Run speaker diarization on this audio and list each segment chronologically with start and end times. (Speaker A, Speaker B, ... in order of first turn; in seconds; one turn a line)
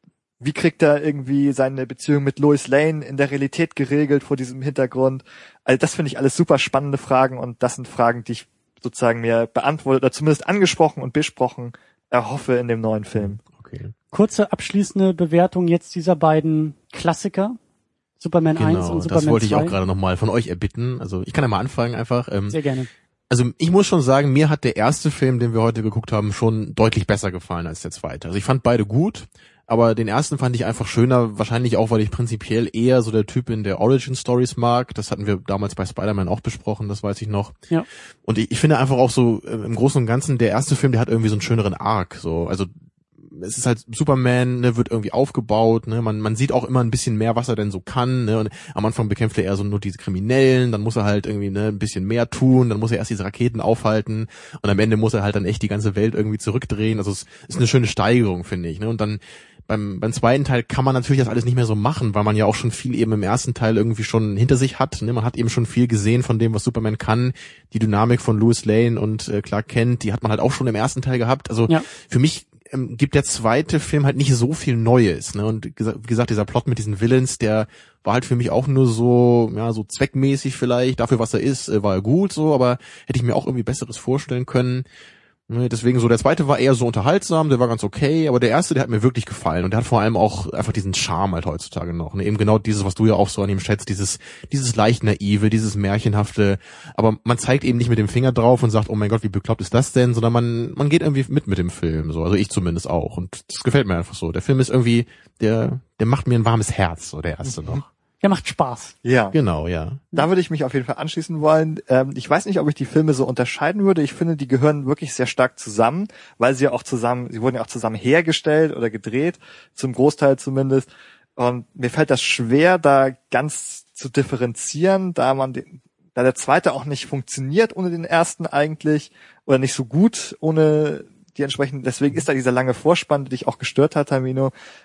Speaker A: 0.4-13.4
Speaker B: 13.2-13.9
Speaker C: 14.1-17.6
Speaker C: 18.2-19.8
Speaker B: 18.6-22.6
Speaker C: 22.5-22.9
Speaker B: 23.3-37.5
Speaker B: 38.2-84.8
Speaker B: 85.5-107.8
Speaker C: 108.2-108.9
Speaker A: 109.0-109.4
Speaker B: 109.3-110.0
Speaker A: 110.1-134.5